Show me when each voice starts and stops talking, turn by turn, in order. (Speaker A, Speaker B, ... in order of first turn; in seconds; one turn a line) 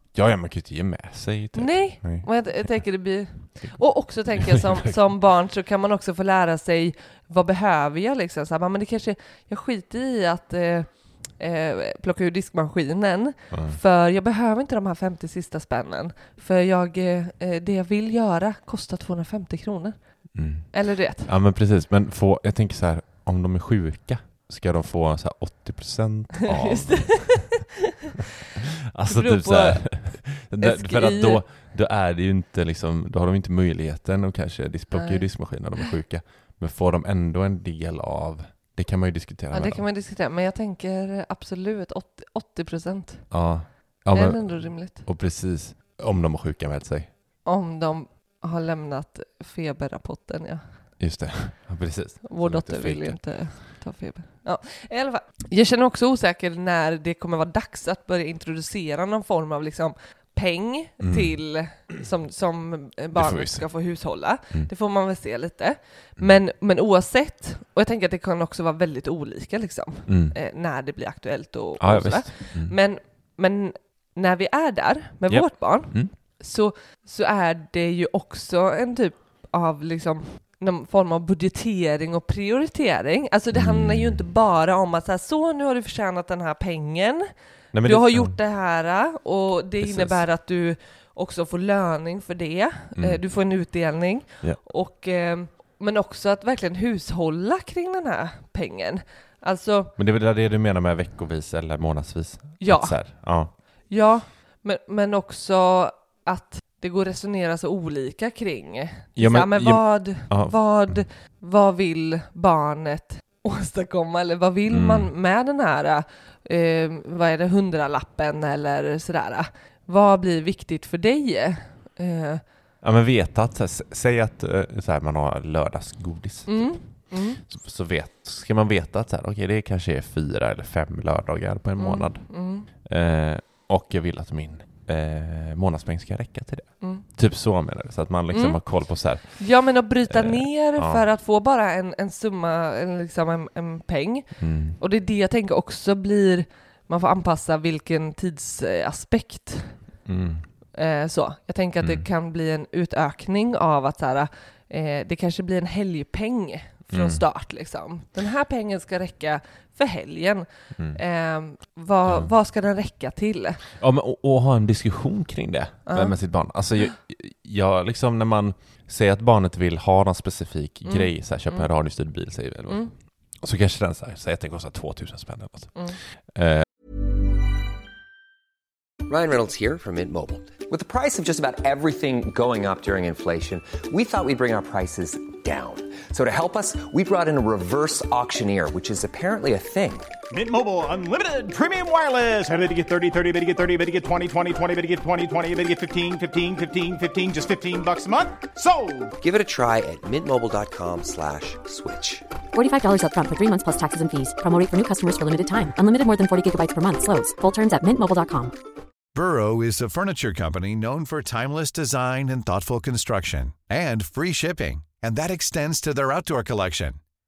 Speaker A: 0.1-5.2
Speaker B: 1.5-21.3
Speaker A: 13.5-13.8
Speaker A: 20.3-27.7
Speaker B: 26.6-27.4
Speaker A: 28.9-39.9
Speaker B: 29.1-31.4
Speaker B: 34.9-35.8
Speaker B: 39.5-45.1
Speaker A: 43.3-47.1
Speaker B: 47.5-50.9
Speaker A: 51.0-53.5
Speaker B: 52.2-87.3
Speaker A: 61.0-61.4
Speaker A: 63.1-64.7
Speaker A: 70.1-70.4
Speaker A: 71.8-72.8
Speaker A: 75.3-76.1
Speaker A: 83.5-84.2
Speaker A: 87.7-88.4
Speaker B: 87.8-99.9
Speaker A: 89.8-90.3
Speaker A: 92.9-93.5
Speaker A: 100.0-103.5
Speaker B: 102.6-122.4
Speaker A: 109.2-111.1
Speaker A: 114.7-115.1
Speaker A: 122.8-141.0
Speaker B: 126.5-127.4
Speaker B: 131.8-132.7
Speaker B: 138.3-149.8
Speaker A: 144.4-144.8
Speaker A: 150.1-150.5
Speaker B: 150.7-163.6
Speaker A: 151.8-152.1
Speaker A: 156.9-157.2
Speaker A: 160.8-161.0
Speaker A: 162.1-162.3
Speaker A: 163.8-176.7
Speaker B: 165.9-166.2
Speaker B: 170.9-171.7
Speaker C: 179.1-190.1
Speaker D: 190.3-199.1
Speaker C: 199.2-202.2
Speaker E: 202.5-208.5
Speaker F: 209.1-217.0